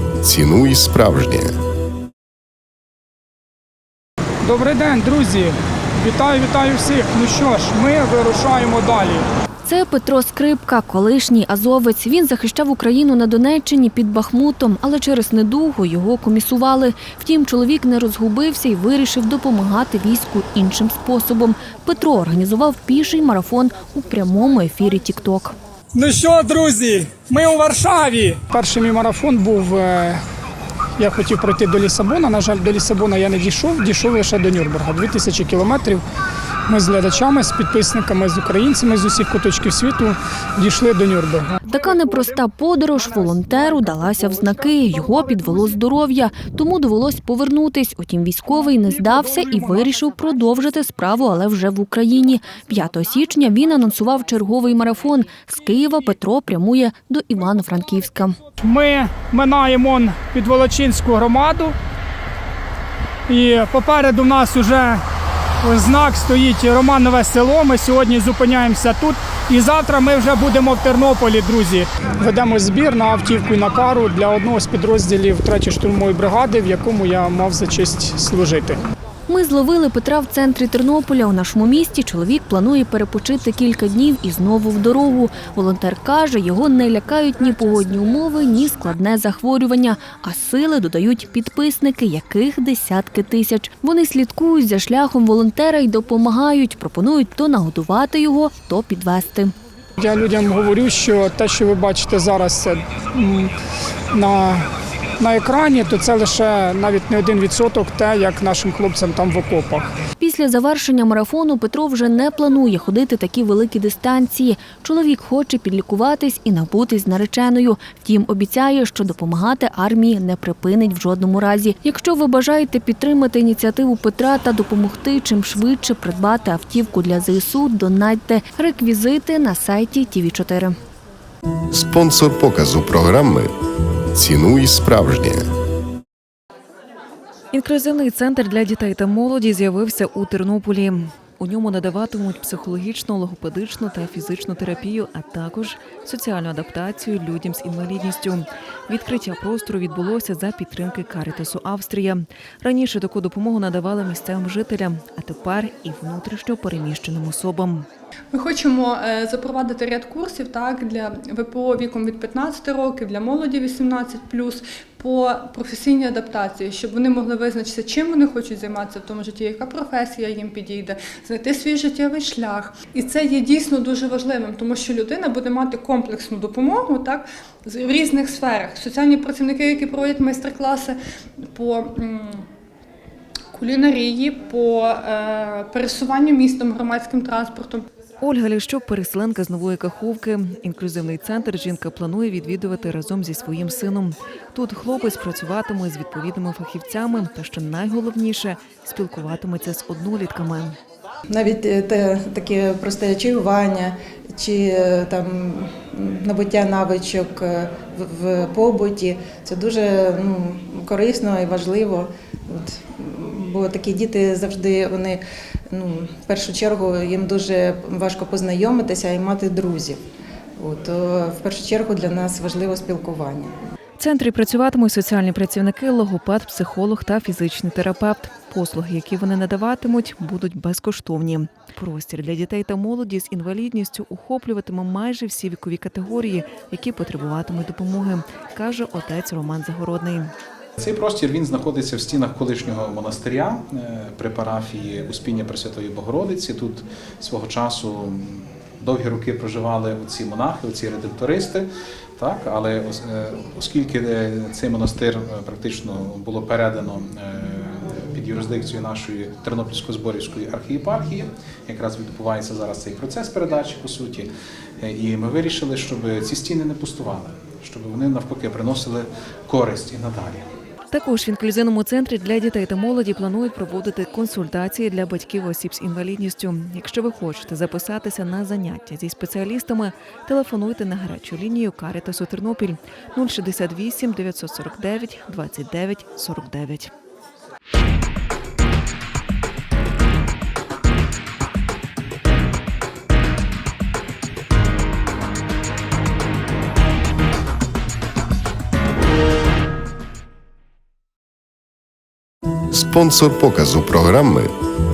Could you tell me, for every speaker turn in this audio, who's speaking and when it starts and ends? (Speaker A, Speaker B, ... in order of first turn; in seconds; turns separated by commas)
Speaker A: 0.2-1.5, Speaker B: 4.4-9.2, Speaker C: 9.6-25.6, Speaker B: 25.9-30.2, Speaker B: 31.0-36.0, Speaker B: 36.7-41.6, Speaker C: 41.7-58.4, Speaker B: 58.6-61.7, Speaker B: 63.3-65.0, Speaker B: 65.6-78.8, Speaker C: 79.3-99.5, Speaker B: 100.0-103.5, Speaker B: 104.1-104.7, Speaker B: 105.2-109.8, Speaker C: 110.2-130.7, Speaker A: 131.7-133.5, Speaker A: 134.1-135.4, Speaker D: 137.5-157.9, Speaker E: 158.3-181.0, Speaker E: 181.5-182.4, Speaker E: 183.5-187.8, Speaker D: 188.2-200.8, Speaker F: 201.3-220.0, Speaker F: 220.6-223.5, Speaker D: 224.0-240.3, Speaker G: 240.8-264.3, Speaker G: 264.8-270.5, Speaker D: 270.9-286.9, Speaker A: 302.7-304.5